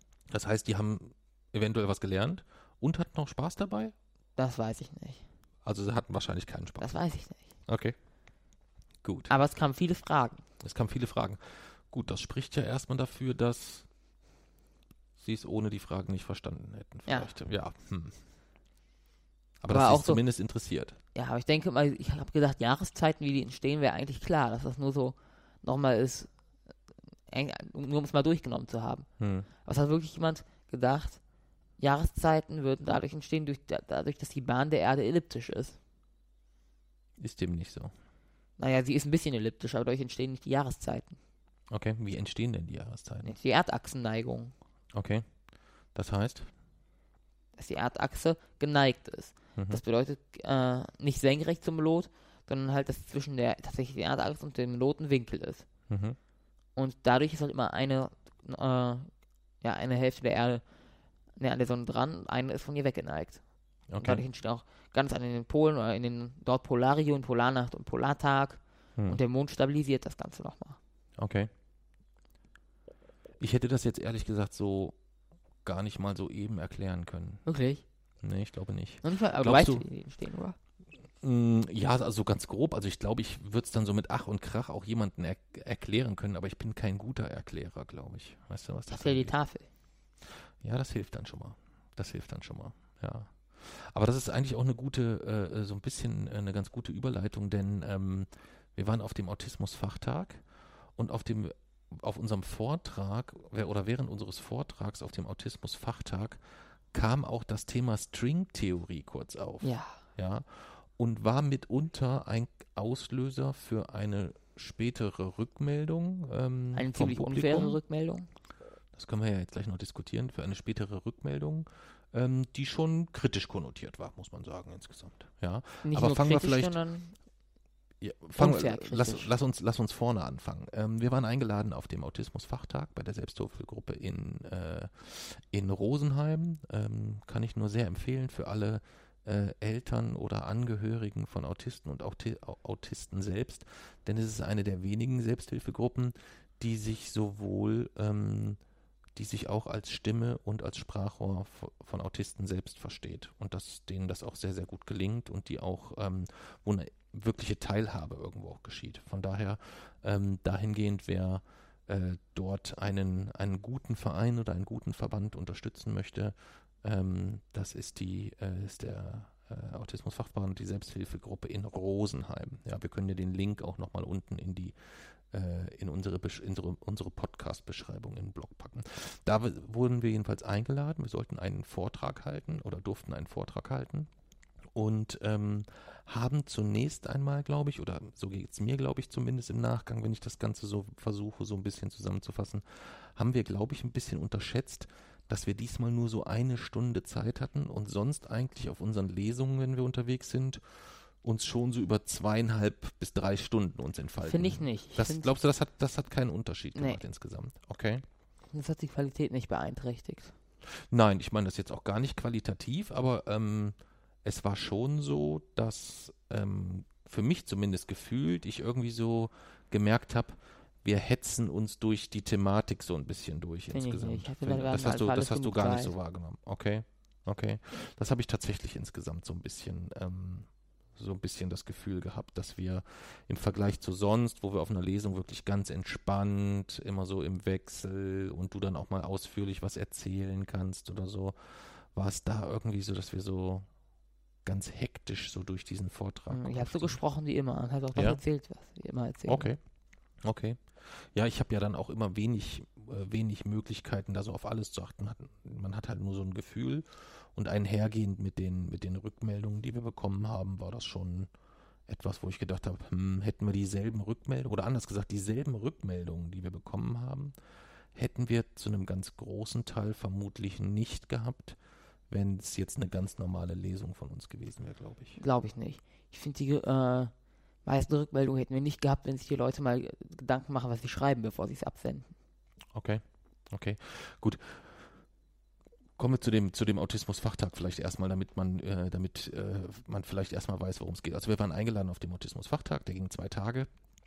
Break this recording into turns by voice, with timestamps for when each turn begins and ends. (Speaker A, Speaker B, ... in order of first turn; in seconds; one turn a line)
Speaker A: 0.3-3.9
Speaker B: 4.4-5.2
Speaker A: 5.6-7.0
Speaker B: 6.8-7.5
Speaker A: 7.7-8.0
Speaker A: 9.0-9.3
Speaker B: 9.3-10.4
Speaker A: 10.6-13.9
Speaker A: 15.2-18.2
Speaker A: 19.6-21.0
Speaker B: 19.7-20.2
Speaker B: 21.1-26.3
Speaker B: 27.3-29.1
Speaker A: 29.2-29.5
Speaker B: 29.6-31.2
Speaker B: 31.8-35.8
Speaker A: 37.2-37.9
Speaker B: 38.6-41.2
Speaker A: 41.7-43.4
Speaker B: 43.2-44.5
Speaker A: 44.9-45.3
Speaker A: 45.9-46.5
Speaker B: 47.6-55.7
Speaker A: 49.6-49.8
Speaker A: 55.9-56.2
Speaker B: 56.8-60.6
Speaker B: 61.4-63.4
Speaker A: 63.9-64.2
Speaker B: 64.0-70.8
Speaker A: 71.2-71.5
Speaker A: 73.4-75.0
Speaker A: 75.6-77.4
Speaker B: 77.5-77.8
Speaker A: 78.2-79.8
Speaker B: 79.0-80.6
Speaker A: 81.2-89.3
Speaker B: 88.9-89.7
Speaker A: 90.3-100.4
Speaker A: 101.0-106.4
Speaker A: 106.9-117.8
Speaker B: 109.6-110.0
Speaker B: 116.8-118.3
Speaker A: 118.9-126.8
Speaker B: 125.8-127.2
Speaker A: 128.0-148.6
Speaker B: 128.4-129.3
Speaker A: 149.2-184.1
Speaker A: 184.7-208.1
Speaker B: 204.2-205.3
Speaker B: 208.5-210.3
Speaker A: 210.7-243.7
Speaker B: 223.7-225.9
Speaker A: 244.4-247.0
Speaker B: 246.3-249.5
Speaker A: 249.3-249.6
Speaker A: 250.2-261.3
Speaker A: 261.9-267.4
Speaker A: 267.9-271.6
Speaker A: 272.1-275.2
Speaker B: 275.2-277.1
Speaker B: 277.6-282.1
Speaker A: 282.7-284.9
Speaker A: 286.0-293.7